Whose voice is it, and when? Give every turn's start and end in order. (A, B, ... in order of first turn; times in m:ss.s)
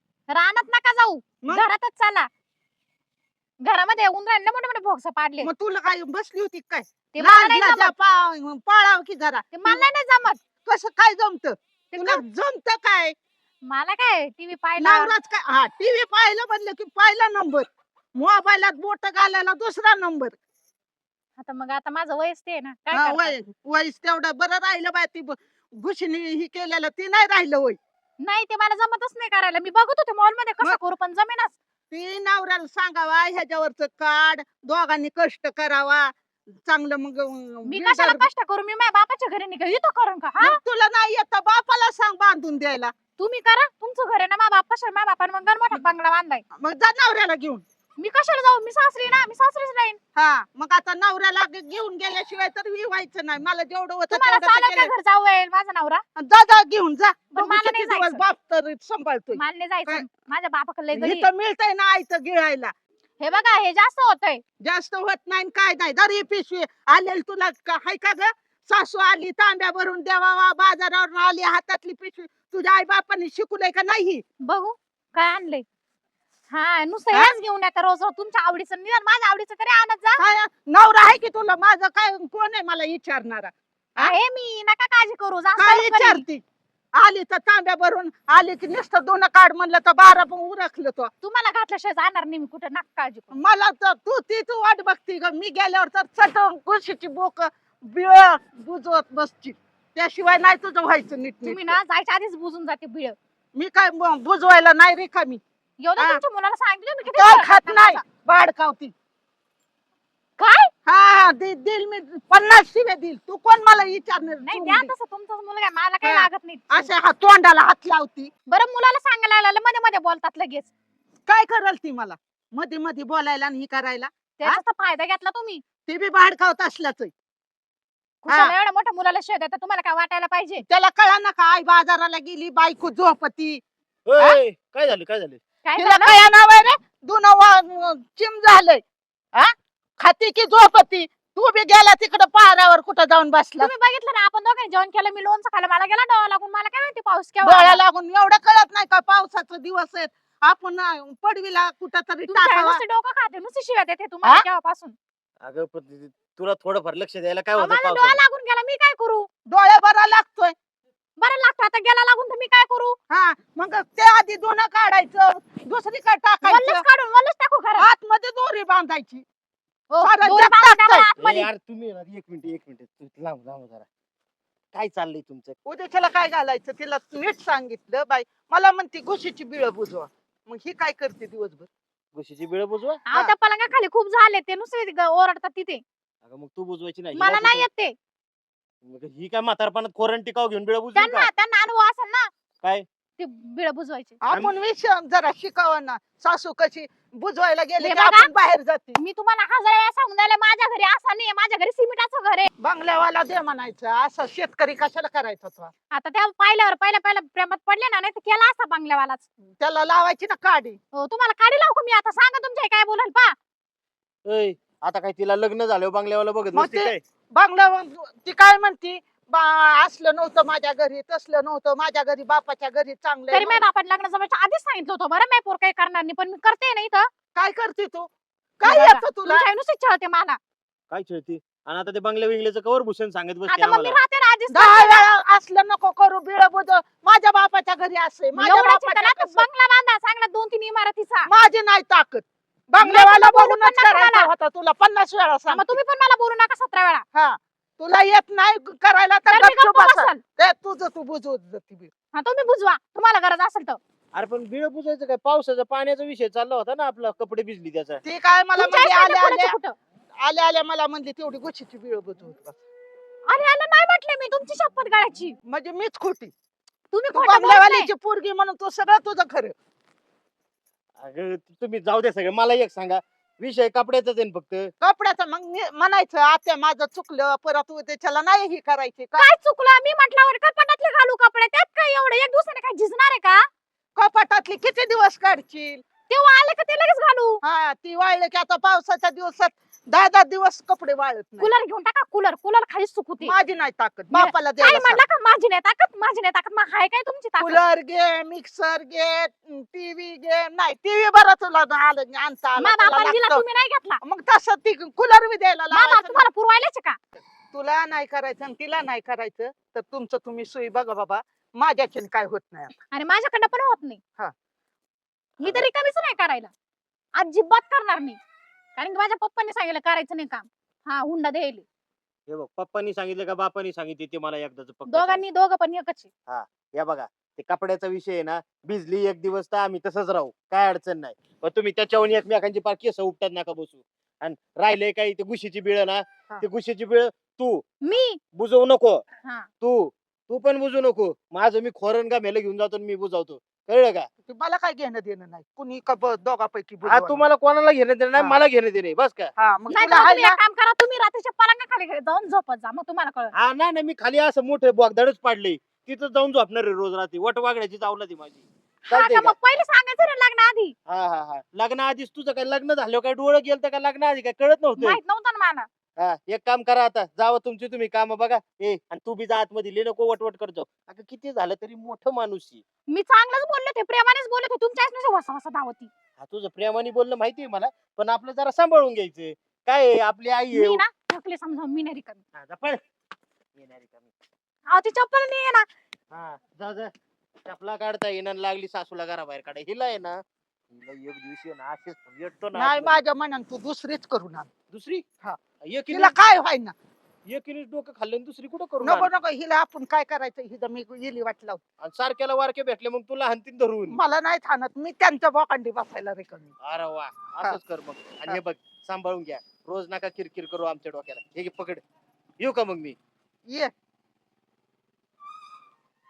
0:00.3-0:02.3 A
0:03.6-0:05.5 A
0:05.4-0:09.9 B
0:07.1-0:07.9 A
0:09.5-0:10.4 A
0:10.6-0:13.2 B
0:11.9-0:12.2 A
0:13.6-0:15.1 A
0:14.8-0:20.4 B
0:21.4-0:23.4 A
0:22.9-0:27.8 B
0:28.2-0:31.6 A
0:31.9-0:36.1 B
0:36.6-0:38.3 B
0:37.7-0:40.6 A
0:40.4-0:42.9 B
0:43.2-0:46.4 A
0:46.5-0:47.6 B
0:48.0-0:50.0 A
0:50.2-0:54.9 B
0:54.1-0:56.0 A
0:56.2-1:00.1 B
0:57.3-0:58.2 A
0:59.3-1:01.3 A
1:00.9-1:02.7 B
1:03.2-1:04.4 A
1:04.6-1:14.2 B
1:14.4-1:15.6 A
1:16.5-1:20.2 A
1:20.2-1:24.1 B
1:24.0-1:26.2 A
1:25.6-1:26.4 B
1:27.0-1:31.1 B
1:31.2-1:33.4 A
1:33.3-1:41.8 B
1:41.4-1:43.2 A
1:43.6-1:45.4 B
1:45.8-1:48.0 A
1:46.0-1:46.2 B
1:47.1-1:48.9 B
1:50.4-1:50.7 A
1:50.9-1:54.9 B
1:54.4-1:56.7 A
1:56.0-1:58.3 B
1:58.5-2:00.7 A
2:01.3-2:04.6 B
2:04.4-2:05.6 A
2:05.9-2:07.1 B
2:08.2-2:10.6 A
2:08.3-2:08.5 B
2:10.7-2:13.6 B
2:14.1-2:15.4 C
2:15.6-2:16.2 A
2:15.8-2:18.8 B
2:19.4-2:23.7 B
2:23.6-2:27.8 A
2:27.4-2:32.8 B
2:32.3-2:35.0 A
2:35.4-2:38.2 C
2:37.6-2:39.3 A
2:39.5-2:40.6 B
2:41.2-2:43.0 A
2:43.1-2:46.8 B
2:46.4-2:47.9 A
2:47.8-2:49.2 B
2:49.9-2:51.5 A
2:50.0-2:51.1 B
2:51.2-2:53.9 C
2:54.7-2:55.6 C
2:55.6-3:01.7 B
3:02.2-3:03.0 C
3:03.1-3:05.8 A
3:06.2-3:07.7 C
3:07.2-3:08.0 A
3:08.8-3:11.3 C
3:11.0-3:12.3 A
3:13.2-3:14.2 A
3:14.2-3:19.0 B
3:17.8-3:18.3 A
3:19.0-3:22.5 A
3:22.6-3:25.7 B
3:25.9-3:29.2 A
3:29.6-3:30.8 B
3:30.9-3:33.4 A
3:34.3-3:37.0 C
3:36.5-3:43.6 B
3:43.3-3:47.1 A
3:47.4-3:49.5 B
3:48.6-3:50.4 A
3:50.9-3:54.0 C
3:53.5-3:55.0 A
3:54.5-3:59.4 B
3:58.4-4:01.3 A
4:01.3-4:05.8 B
4:02.8-4:04.3 A
4:05.5-4:07.0 A
4:07.1-4:11.9 B
4:09.3-4:10.2 A
4:12.1-4:13.8 A
4:14.2-4:18.0 C
4:18.0-4:19.6 B
4:18.6-4:19.8 A
4:20.2-4:22.6 B
4:23.3-4:25.4 A
4:25.5-4:26.3 B
4:26.9-4:27.9 A
4:27.1-4:29.5 B
4:31.0-4:34.7 C
4:34.8-4:39.3 B
4:39.2-4:43.5 A
4:44.0-4:45.8 B
4:46.1-4:47.4 A
4:47.4-4:51.5 B
4:51.4-4:53.4 A
4:53.2-4:55.0 B
4:54.1-4:57.6 A
4:57.4-5:03.4 B
5:02.6-5:04.0 A
5:04.0-5:06.3 B
5:05.7-5:07.0 A
5:07.5-5:12.7 B
5:12.9-5:14.0 A
5:15.4-5:16.5 A
5:17.2-5:18.2 A
5:18.8-5:21.6 A
5:22.3-5:25.2 C
5:24.9-5:26.1 A
5:26.3-5:37.6 C
5:37.8-5:38.2 A
5:38.3-5:39.0 C
5:39.6-5:44.1 C
5:44.2-5:47.2 B
5:46.9-5:50.0 C
5:49.4-5:50.4 B
5:49.7-5:53.3 A
5:53.3-5:59.3 C
5:58.9-6:00.8 A
6:00.9-6:05.0 C
6:04.8-6:05.7 A
6:06.0-6:12.6 C
6:12.9-6:15.9 A
6:16.2-6:20.8 C
6:20.5-6:22.2 A
6:22.4-6:22.8 C
6:23.6-6:24.1 C
6:24.7-6:25.7 A
6:26.1-6:26.9 C
6:27.5-6:33.0 C
6:32.6-6:34.5 B
6:34.7-6:35.0 C
6:35.6-6:36.2 C
6:35.9-6:36.7 B
6:37.3-6:39.1 C
6:38.8-6:41.6 B
6:41.8-6:44.0 C
6:43.9-6:46.5 B
6:46.6-6:51.8 C
6:52.4-6:53.0 C